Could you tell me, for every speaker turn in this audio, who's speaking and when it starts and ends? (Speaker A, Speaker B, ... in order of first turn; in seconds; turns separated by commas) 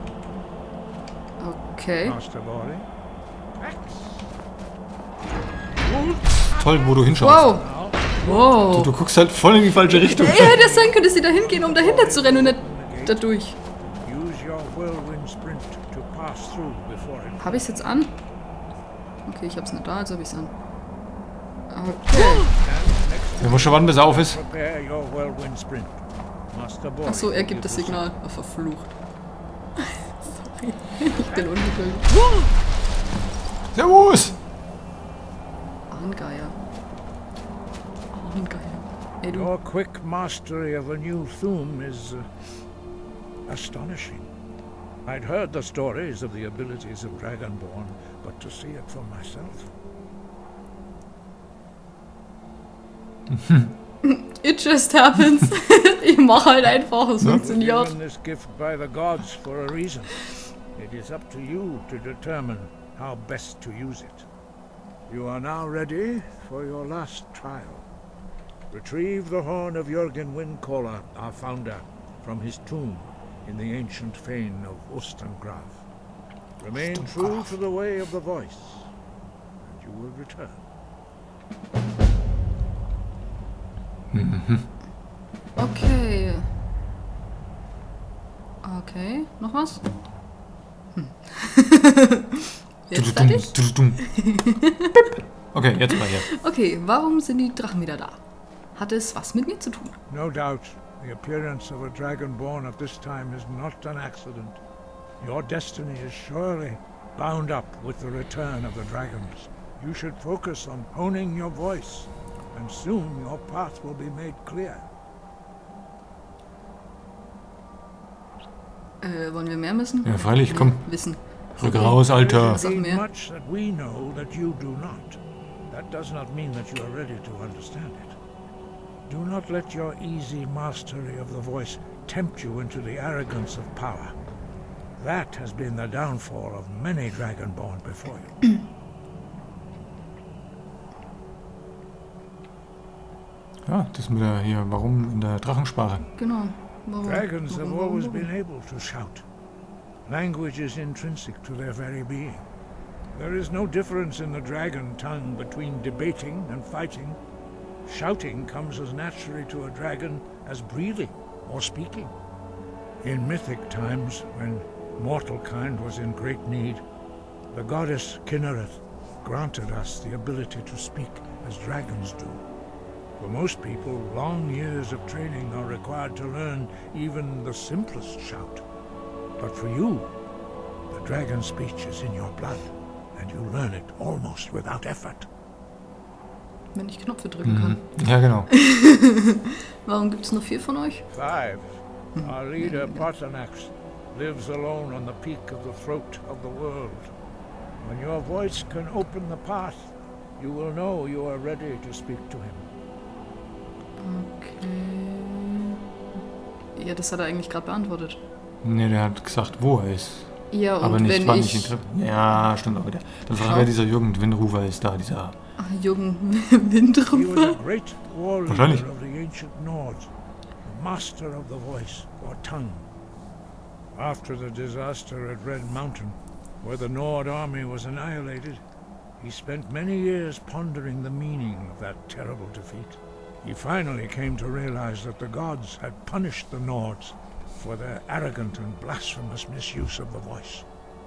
Speaker A: 1.4-2.2, Speaker B: 2.0-2.9, Speaker B: 3.5-4.3, Speaker B: 5.8-6.6, Speaker C: 6.5-7.6, Speaker A: 7.2-8.9, Speaker B: 7.3-8.7, Speaker C: 8.7-10.6, Speaker A: 10.0-13.6, Speaker B: 10.4-13.2, Speaker B: 14.0-17.8, Speaker A: 17.4-18.1, Speaker A: 19.2-20.5, Speaker A: 21.7-22.5, Speaker B: 22.1-28.0, Speaker C: 23.4-24.4, Speaker A: 27.1-28.9, Speaker A: 29.8-32.2, Speaker C: 33.7-34.4, Speaker A: 35.9-36.5, Speaker A: 38.1-39.5, Speaker B: 39.3-42.2, Speaker B: 43.5-44.3, Speaker B: 45.0-49.7, Speaker C: 53.3-53.7, Speaker A: 54.0-58.0, Speaker B: 57.2-64.3, Speaker B: 65.1-67.8, Speaker B: 68.7-75.8, Speaker B: 76.6-78.9, Speaker C: 76.8-77.5, Speaker B: 79.6-80.6, Speaker C: 84.1-84.7, Speaker A: 85.5-86.5, Speaker A: 88.6-89.8, Speaker A: 90.9-95.1, Speaker C: 92.9-94.0, Speaker C: 95.5-96.3, Speaker A: 96.3-98.2, Speaker A: 98.7-100.0, Speaker B: 100.1-104.6, Speaker B: 105.2-114.9, Speaker A: 119.0-123.0, Speaker C: 120.0-121.0, Speaker C: 121.5-122.6, Speaker B: 121.7-125.2, Speaker B: 125.7-128.2, Speaker B: 129.1-134.1, Speaker B: 135.0-138.5, Speaker C: 143.6-146.1, Speaker A: 146.1-148.3, Speaker B: 147.0-149.2, Speaker B: 150.1-152.4, Speaker B: 153.1-157.2, Speaker B: 157.8-162.2, Speaker B: 163.0-166.8, Speaker B: 167.5-172.4, Speaker B: 173.2-178.6, Speaker B: 179.4-180.1, Speaker B: 180.9-185.3, Speaker A: 186.7-191.1, Speaker C: 187.4-188.5, Speaker B: 191.1-197.1, Speaker A: 192.2-193.0, Speaker B: 197.8-202.7, Speaker A: 204.0-205.8, Speaker A: 206.7-208.2, Speaker C: 208.6-215.3, Speaker A: 210.5-211.7, Speaker A: 213.3-213.7, Speaker A: 215.6-217.6, Speaker B: 217.1-220.1, Speaker C: 218.5-218.8, Speaker B: 220.6-222.9, Speaker B: 223.9-228.6, Speaker B: 229.2-240.6